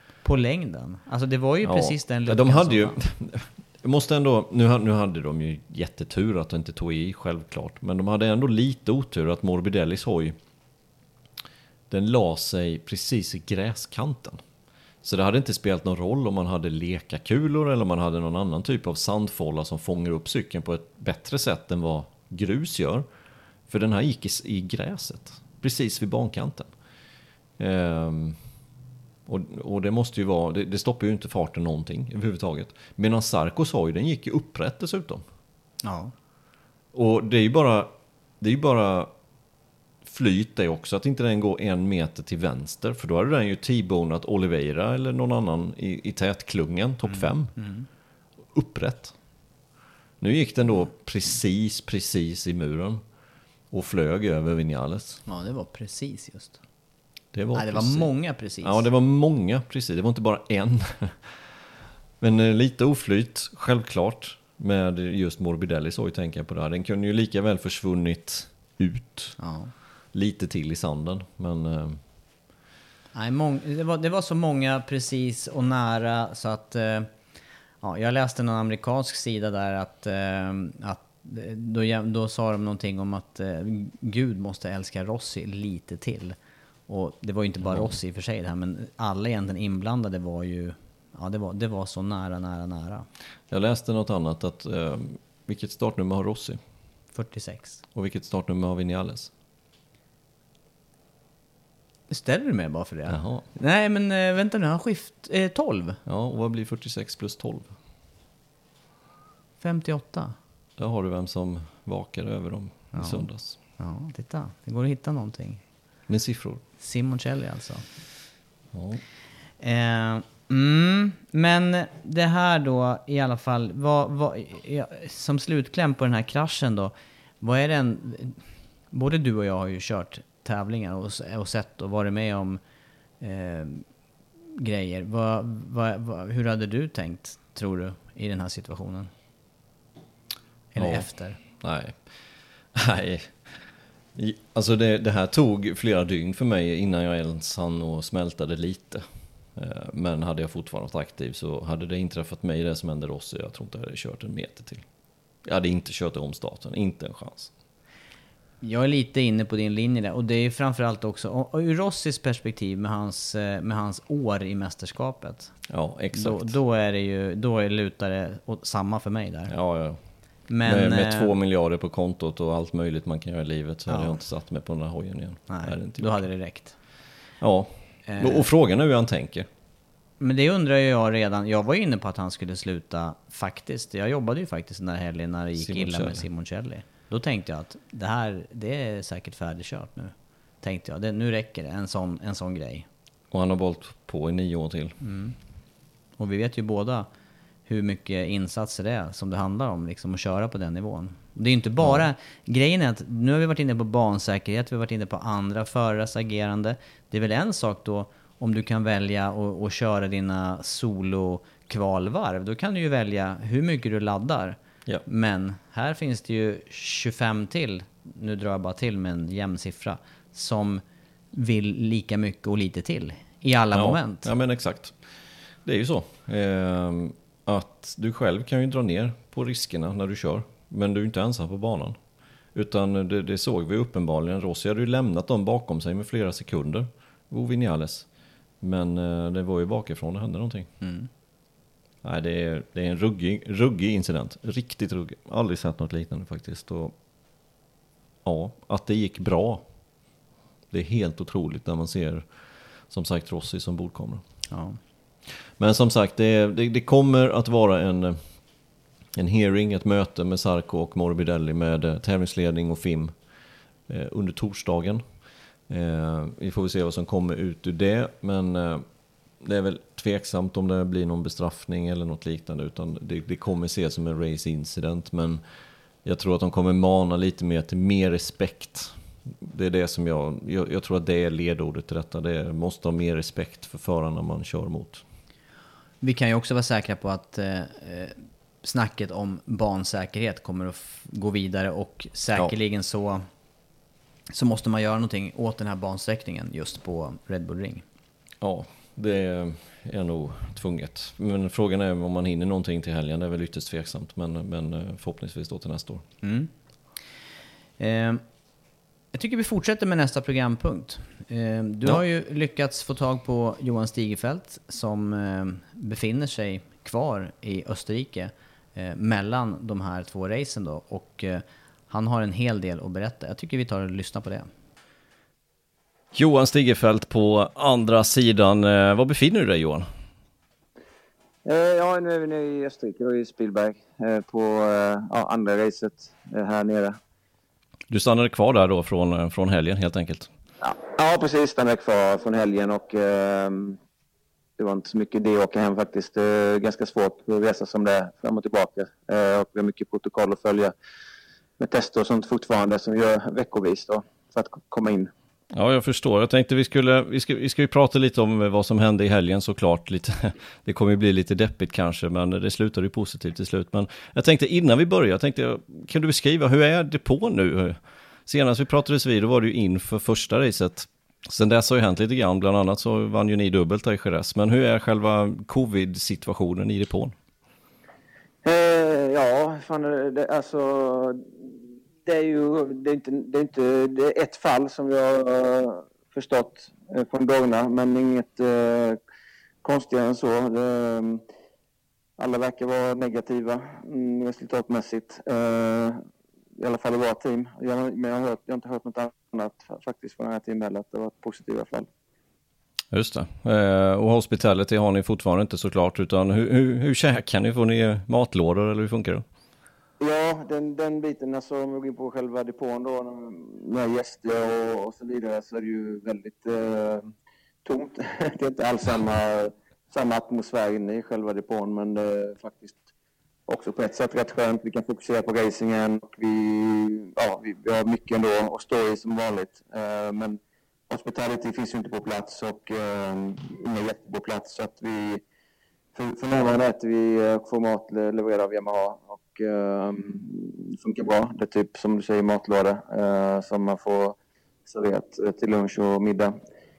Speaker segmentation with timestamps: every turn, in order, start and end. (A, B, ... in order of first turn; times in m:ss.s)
0:00.2-0:03.0 A
0:01.6-0:10.4 B
0:11.9-0:14.4 B
0:15.0-0:23.1 B
0:23.7-0:26.7 B
0:27.6-0:28.4 B
0:29.3-0:35.2 B
0:35.8-0:36.1 A
0:36.9-0:39.1 B
0:40.0-0:47.6 B
0:47.0-0:47.9 A
0:48.5-0:49.1 B
0:50.2-0:53.0 B
0:53.7-0:55.2 B
0:55.3-0:56.6 A
0:57.3-1:01.4 B
0:57.5-0:58.9 A
1:02.2-1:09.4 B
1:09.4-1:09.7 A
1:10.1-1:12.0 B
1:13.1-1:17.1 A
1:17.8-1:26.4 A
1:26.9-1:33.1 A
1:33.5-1:36.6 B
1:37.1-1:37.8 A
1:37.9-1:39.3 B
1:42.1-1:46.0 A
1:43.1-1:43.4 B
1:46.1-1:47.7 B
1:49.6-1:50.4 A
1:50.8-1:53.6 B
1:52.9-1:55.6 A
1:56.1-1:56.6 B
1:56.8-1:57.8 A
1:58.7-1:59.0 B
1:59.6-2:08.4 A
2:08.9-2:12.6 A
2:13.2-2:13.8 A
2:14.6-2:19.1 A
2:20.7-2:21.4 A
2:20.8-2:22.1 B
2:22.7-2:34.8 B
2:35.4-2:37.5 B
2:38.6-2:45.6 A
2:45.7-2:46.6 B
2:46.1-2:49.5 A
2:49.5-2:50.0 B
2:50.5-2:51.3 A
2:50.6-2:56.3 B
2:53.9-2:54.2 A
2:55.5-2:56.8 A
2:57.4-2:59.5 B
2:58.1-2:58.5 A
3:00.2-3:12.9 A
3:05.6-3:06.3 B
3:13.3-3:15.0 B
3:15.0-3:15.4 A
3:16.2-3:17.1 A
3:17.7-3:40.8 A
3:41.3-3:44.3 A
3:43.7-3:45.0 B
3:45.6-3:52.0 B
3:52.5-3:58.1 B
3:58.6-4:00.7 B
4:00.8-4:01.1 A
4:02.0-4:06.9 B
4:08.2-4:09.6 B
4:10.7-4:12.3 B
4:12.9-4:14.2 B
4:14.5-4:14.8 A
4:15.6-4:18.2 B
4:19.2-4:23.2 B
4:23.9-4:25.0 B
4:25.7-4:28.8 B
4:29.4-4:35.4 B
4:36.0-4:45.0 B
4:46.0-4:53.2 A
4:54.3-4:57.8 A
4:58.4-5:06.0 B
5:06.2-5:06.5 A
5:07.8-5:08.2 A
5:09.1-5:24.5 A
5:26.1-5:29.9 B
5:31.4-5:37.0 C
5:37.9-5:40.3 B
5:40.6-5:43.8 C
5:44.6-5:50.7 C
5:51.6-5:55.1 C
5:55.5-6:17.2 B
6:18.4-6:29.0 C
6:29.6-6:31.2 C
6:32.2-6:36.0 C
6:36.6-6:41.9 C
6:42.9-6:49.2 B
6:50.0-6:57.1 C
6:57.6-7:02.8 C
7:03.5-7:15.2 C
7:15.9-7:24.2 C
7:24.7-7:26.4 C